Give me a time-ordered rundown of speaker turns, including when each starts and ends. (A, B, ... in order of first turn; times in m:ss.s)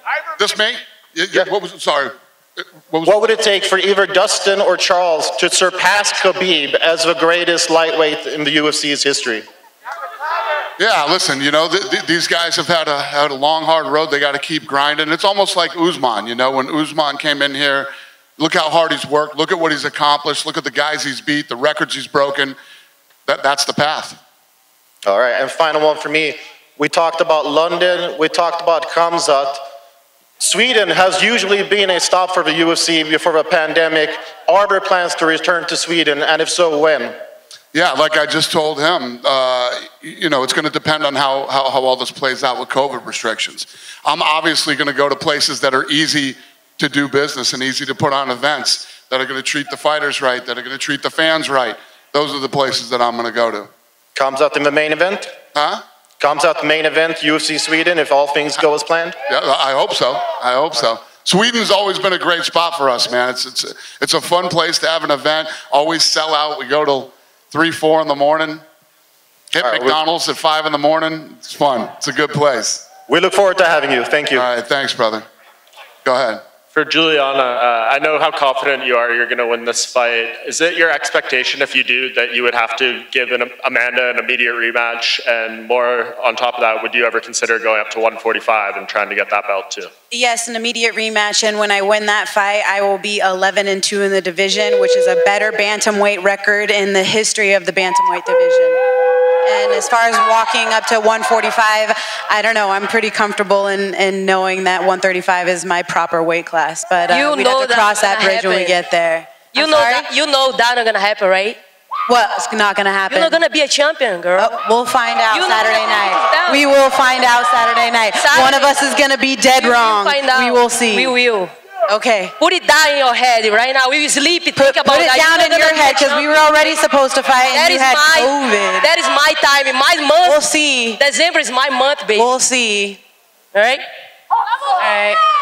0:00.4-0:03.2 A
0:03.0-0:09.5 B
0:10.8-0:22.6 A
0:23.3-0:24.2 A
0:25.1-0:29.6 B
0:30.4-0:37.2 B
0:37.7-0:53.7 A
0:54.2-0:55.3 B
0:55.5-0:55.8 A
0:56.2-0:59.2 B
0:59.3-1:08.6 A
1:09.5-1:12.9 A
1:09.6-1:10.0 B
1:13.1-1:14.5 B
1:14.4-1:15.2 A
1:16.0-1:16.4 A
1:16.7-1:29.9 C
1:30.1-1:38.8 D
1:39.5-1:50.1 D
1:47.1-1:48.8 E
1:49.5-1:51.6 E
1:52.1-1:53.4 D
1:53.1-1:54.6 E
1:54.4-2:01.2 D
1:55.3-1:56.6 E
1:58.2-1:58.8 E
1:59.6-2:01.5 E
2:01.9-2:02.3 D
2:02.4-2:06.4 E
2:04.6-2:08.9 D
2:07.5-2:10.4 E
2:10.2-2:11.0 D
2:11.0-2:12.3 E
2:12.2-2:13.0 D
2:13.5-2:13.8 E
2:14.8-2:15.2 D